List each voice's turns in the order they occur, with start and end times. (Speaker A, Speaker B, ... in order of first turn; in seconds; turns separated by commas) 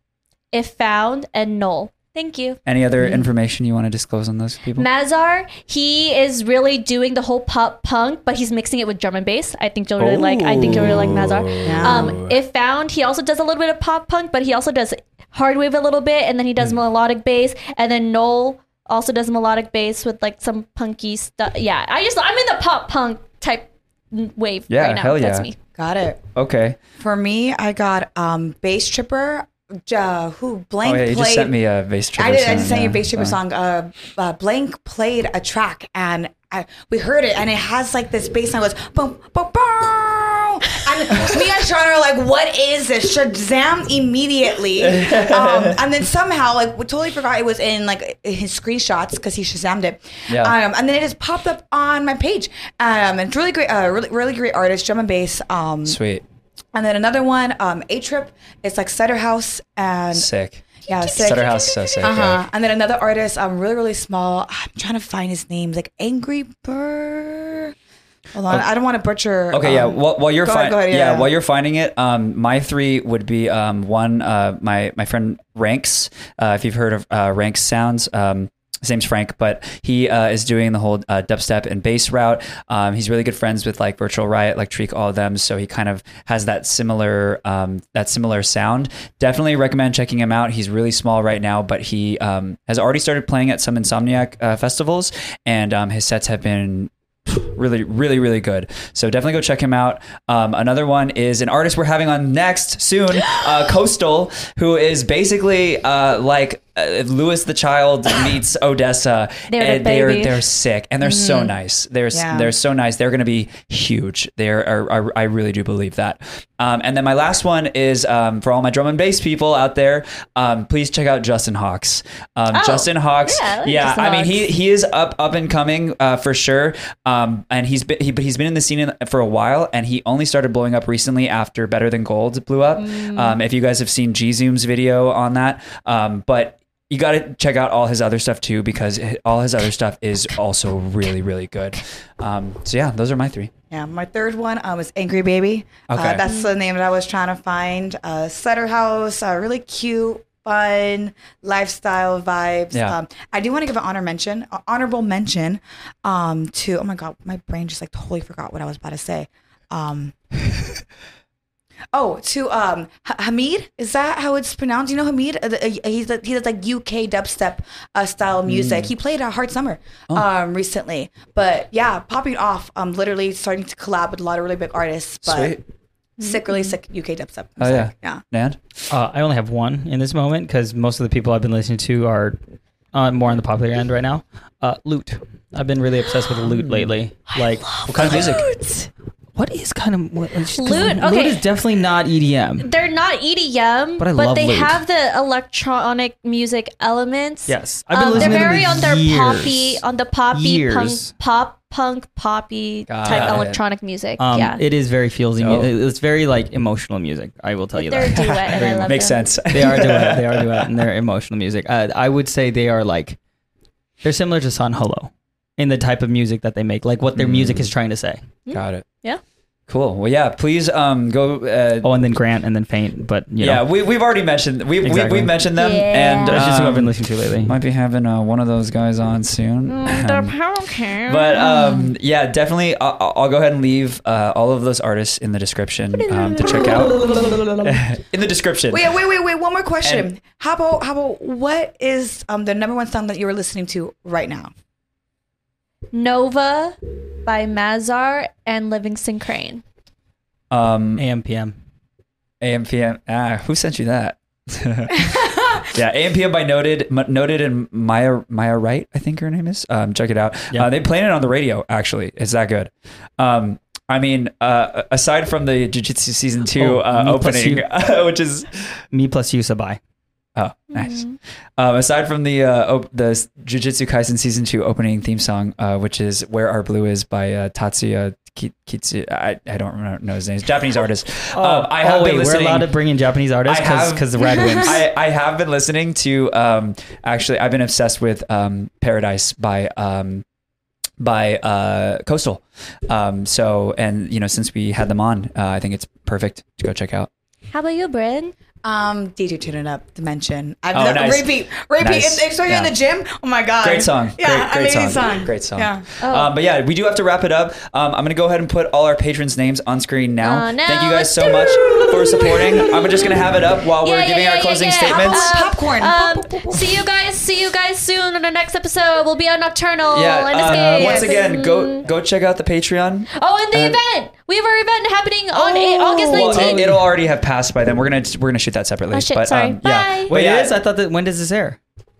Speaker A: 0.5-2.6, Speaker B: 2.6-4.9, Speaker C: 3.0-3.3, Speaker A: 4.8-25.6, Speaker B: 10.0-12.3, Speaker C: 11.6-12.2, Speaker B: 24.7-25.5, Speaker C: 25.8-26.2, Speaker B: 26.4-26.8, Speaker C: 27.0-31.5, Speaker B: 30.8-33.4, Speaker C: 32.1-56.0, Speaker B: 44.8-45.8, Speaker B: 50.3-50.5, Speaker B: 55.9-56.2, Speaker C: 56.7-60.3, Speaker B: 60.1-60.6, Speaker C: 60.9-67.7, Speaker A: 61.0-62.0, Speaker B: 61.1-62.4, Speaker C: 68.3-71.3, Speaker B: 69.5-143.5, Speaker A: 109.5-110.4, Speaker C: 111.0-111.5, Speaker C: 112.1-112.5, Speaker A: 122.5-124.5, Speaker A: 132.8-133.4, Speaker C: 143.7-160.1, Speaker B: 145.9-146.2, Speaker A: 146.2-146.5, Speaker C: 161.9-175.6, Speaker B: 168.4-168.9, Speaker B: 175.2-175.6, Speaker A: 176.2-176.7, Speaker C: 176.2-178.2, Speaker B: 177.6-178.9, Speaker D: 178.9-182.4, Speaker D: 182.9-188.4, Speaker B: 186.5-186.9, Speaker A: 187.7-188.9, Speaker B: 187.9-188.4, Speaker D: 189.3-192.7, Speaker A: 190.5-191.4, Speaker A: 192.6-204.6, Speaker D: 194.0-194.8, Speaker D: 197.5-199.8, Speaker B: 198.1-198.9, Speaker D: 200.3-201.1, Speaker B: 202.9-203.6, Speaker D: 203.1-203.3, Speaker D: 204.2-208.9, Speaker B: 205.4-205.7, Speaker A: 207.8-209.2, Speaker B: 208.1-210.8, Speaker D: 209.5-213.2, Speaker D: 214.0-218.2, Speaker B: 217.1-217.7, Speaker A: 218.5-219.2, Speaker B: 218.5-218.8, Speaker B: 219.7-221.9, Speaker D: 221.8-223.6, Speaker B: 223.4-230.3, Speaker D: 224.8-225.3, Speaker A: 225.6-226.4, Speaker D: 226.3-227.6, Speaker A: 229.7-231.9, Speaker B: 231.1-238.9, Speaker A: 236.0-237.6, Speaker C: 238.7-244.5, Speaker B: 239.8-240.1, Speaker A: 245.9-249.6, Speaker B: 250.5-251.0, Speaker D: 251.0-251.5, Speaker B: 252.4-255.1, Speaker B: 255.7-268.7, Speaker D: 266.6-267.6, Speaker D: 268.9-269.8, Speaker B: 270.4-282.7, Speaker A: 270.7-271.1, Speaker D: 281.3-284.9, Speaker B: 283.4-290.2, Speaker B: 291.0-297.1, Speaker A: 297.5-298.3, Speaker C: 298.6-305.9, Speaker B: 300.7-302.7, Speaker B: 303.6-315.3, Speaker A: 306.0-306.3, Speaker A: 310.2-313.2, Speaker C: 311.8-312.4, Speaker A: 313.8-321.8, Speaker C: 314.8-316.8, Speaker B: 319.9-323.8, Speaker C: 320.4-321.2, Speaker A: 323.2-326.6, Speaker D: 325.3-326.9, Speaker B: 326.1-330.5, Speaker A: 328.9-330.1, Speaker D: 330.1-331.6